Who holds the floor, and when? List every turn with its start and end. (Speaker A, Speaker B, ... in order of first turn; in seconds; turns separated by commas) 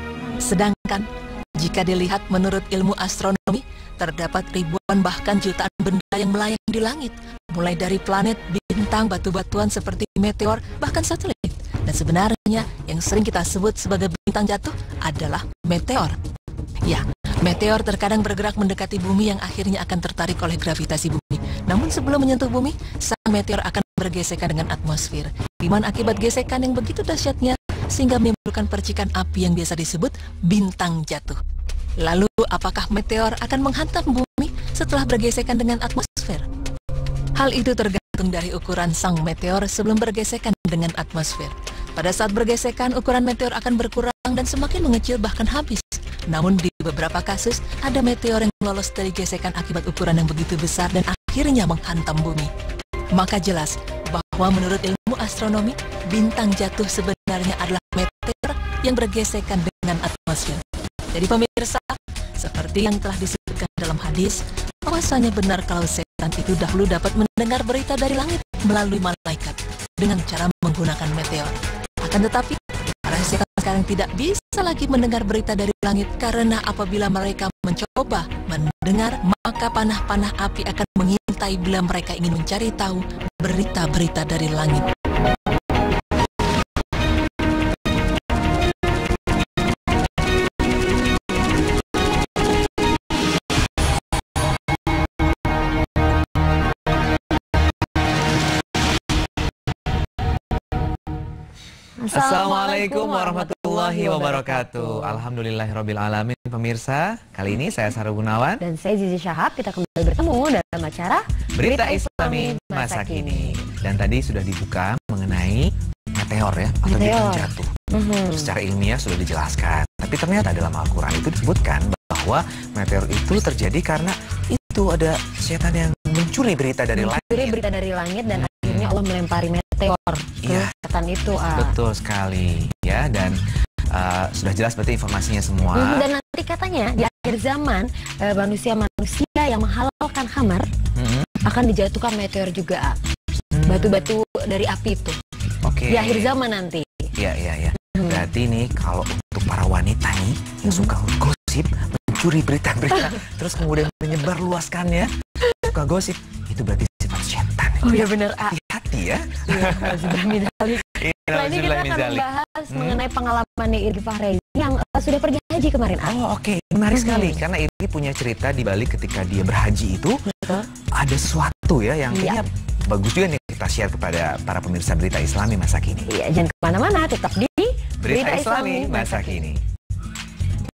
Speaker A: 0.4-16.2, Speaker A: 16.8-31.4, Speaker A: 32.0-36.5, Speaker A: 37.4-52.5, Speaker A: 53.1-84.9, Speaker B: 102.0-105.2, Speaker C: 102.1-108.6, Speaker B: 108.6-113.6, Speaker C: 111.5-127.6, Speaker B: 116.8-118.5, Speaker B: 126.9-131.7, Speaker C: 128.3-129.0, Speaker C: 130.4-130.7, Speaker C: 131.5-133.4, Speaker C: 133.9-136.1, Speaker B: 135.7-140.7, Speaker C: 140.9-141.5, Speaker B: 141.4-143.0, Speaker C: 143.5-144.2, Speaker B: 143.6-145.2, Speaker C: 145.6-146.4, Speaker B: 145.9-147.1, Speaker C: 147.2-163.0, Speaker B: 147.9-148.2, Speaker B: 157.8-158.6, Speaker B: 159.3-166.2, Speaker C: 166.0-170.2, Speaker B: 166.9-167.4, Speaker B: 170.3-170.7, Speaker C: 170.9-176.1, Speaker B: 172.1-172.4, Speaker B: 176.1-179.4, Speaker C: 178.0-179.6